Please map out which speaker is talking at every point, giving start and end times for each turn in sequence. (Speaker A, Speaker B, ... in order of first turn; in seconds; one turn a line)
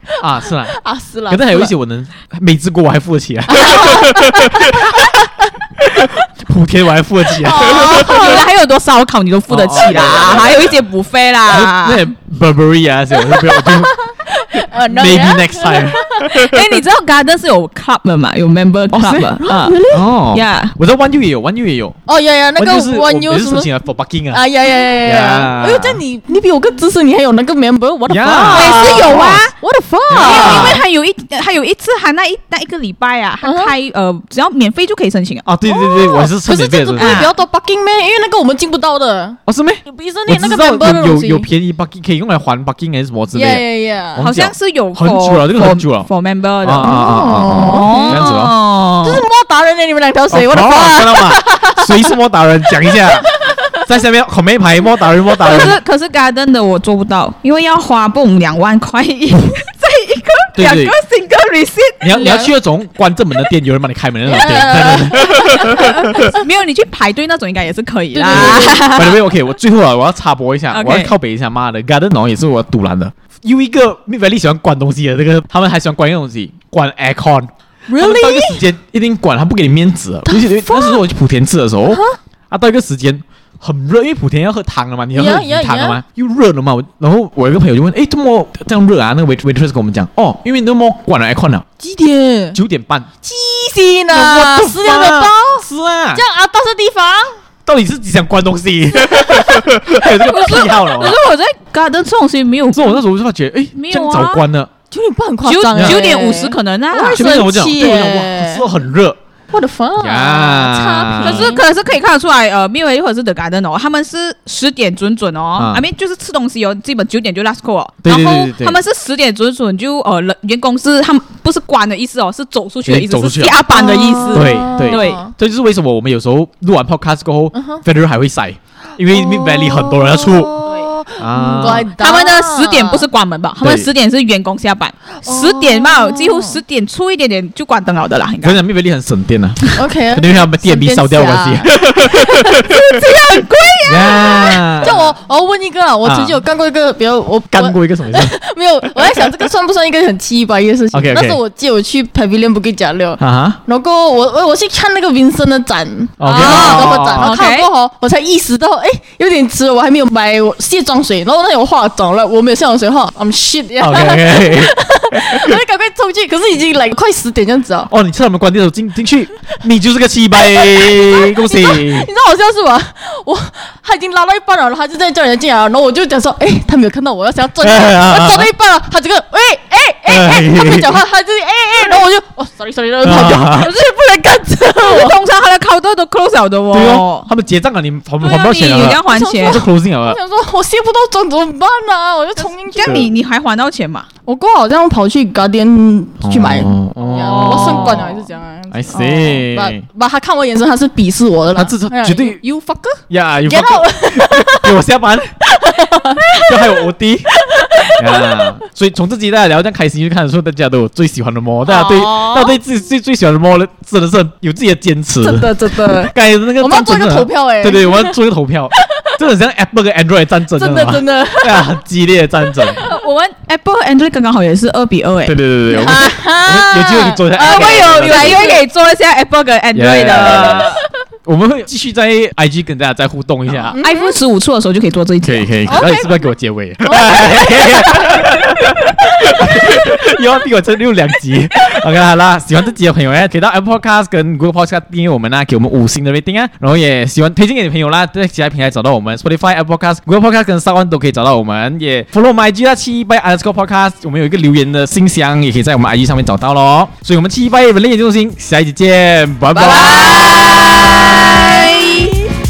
Speaker A: 0.2-0.8
Speaker B: 0.2-1.7
Speaker A: 1.3-8.3
Speaker B: 3.5-5.3
Speaker B: 7.4-8.5
Speaker C: 7.5-12.1
Speaker A: 9.5-10.8
Speaker A: 11.5-14.0
Speaker B: 13.2-16.5
Speaker A: 14.5-16.8
Speaker C: 16.4-19.6
Speaker A: 18.9-22.0
Speaker B: 19.4-20.1
Speaker C: 20.3-20.8
Speaker B: 22.1-23.7
Speaker A: 22.6-24.4
Speaker B: 24.3-30.8
Speaker A: 25.0-26.0
Speaker A: 28.1-29.5
Speaker C: 28.5-29.5
Speaker A: 30.1-30.8
Speaker C: 30.2-35.5
Speaker B: 33.4-33.7
Speaker A: 35.5-37.3
Speaker B: 35.6-41.5
Speaker C: 37.0-37.3
Speaker A: 39.5-43.6
Speaker B: 43.3-44.2
Speaker A: 44.1-46.1
Speaker C: 44.2-49.2
Speaker A: 46.6-48.5
Speaker B: 46.8-48.4
Speaker B: 49.0-52.1
Speaker A: 50.3-53.3
Speaker B: 52.8-53.8
Speaker A: 53.9-55.8
Speaker C: 55.4-62.4
Speaker A: 60.6-61.0
Speaker A: 62.0-66.3
Speaker B: 62.1-62.5
Speaker B: 64.3-66.1
Speaker C: 65.2-69.2
Speaker B: 68.1-69.1
Speaker A: 68.3-91.7
Speaker C: 70.7-71.1
Speaker B: 77.9-78.6
Speaker B: 80.3-81.0
Speaker B: 81.9-82.2
Speaker B: 85.2-86.0
Speaker B: 91.8-92.6
Speaker A: 92.5-93.1
Speaker B: 93.2-97.4
Speaker A: 94.1-96.2
Speaker A: 97.7-101.2
Speaker B: 99.0-99.7
Speaker C: 100.3-103.0
Speaker A: 102.7-104.7
Speaker C: 103.8-104.4
Speaker B: 104.9-108.7
Speaker C: 105.5-107.5
Speaker A: 105.8-106.0
Speaker A: 107.1-109.2
Speaker B: 109.5-111.6
Speaker A: 110.0-111.5
Speaker C: 111.2-125.2
Speaker A: 115.6-115.8
Speaker A: 118.0-118.8
Speaker A: 122.9-123.7
Speaker B: 123.7-125.3
Speaker A: 124.3-130.6
Speaker B: 127.5-127.8
Speaker B: 129.1-133.1
Speaker A: 131.2-131.9
Speaker C: 132.0-138.6
Speaker A: 133.6-133.9
Speaker B: 135.2-136.6
Speaker A: 138.4-142.7
Speaker B: 139.7-142.7
Speaker C: 142.6-144.6
Speaker A: 143.9-145.1
Speaker B: 144.8-167.9
Speaker A: 146.0-146.4
Speaker A: 147.5-148.3
Speaker A: 150.9-151.4
Speaker A: 153.2-153.6
Speaker A: 156.2-157.3
Speaker C: 156.2-157.7
Speaker A: 163.8-165.6
Speaker A: 167.9-172.1
Speaker B: 170.4-185.2
Speaker A: 177.6-178.5
Speaker A: 180.1-181.0
Speaker A: 183.0-183.7
Speaker C: 183.5-187.3
Speaker A: 186.7-190.2
Speaker C: 188.2-189.6
Speaker B: 188.8-193.1
Speaker C: 192.4-194.1
Speaker A: 192.8-193.1
Speaker B: 194.3-204.8
Speaker A: 196.2-198.1
Speaker C: 197.2-198.2
Speaker A: 198.7-199.8
Speaker A: 201.6-202.4
Speaker A: 203.1-205.4
Speaker B: 205.5-208.6
Speaker A: 206.3-207.3
Speaker A: 208.0-222.8
Speaker B: 211.7-212.6
Speaker B: 215.2-218.2
Speaker B: 218.8-219.2
Speaker B: 220.5-221.8
Speaker C: 222.8-225.4
Speaker A: 225.2-228.6
Speaker B: 225.7-228.6
Speaker C: 227.3-230.8
Speaker A: 229.8-230.7
Speaker A: 231.2-233.8
Speaker B: 233.7-234.2
Speaker C: 233.7-235.8
Speaker A: 235.2-260.2
Speaker B: 235.7-236.2
Speaker B: 236.8-238.3
Speaker C: 259.6-262.2
Speaker B: 259.8-262.2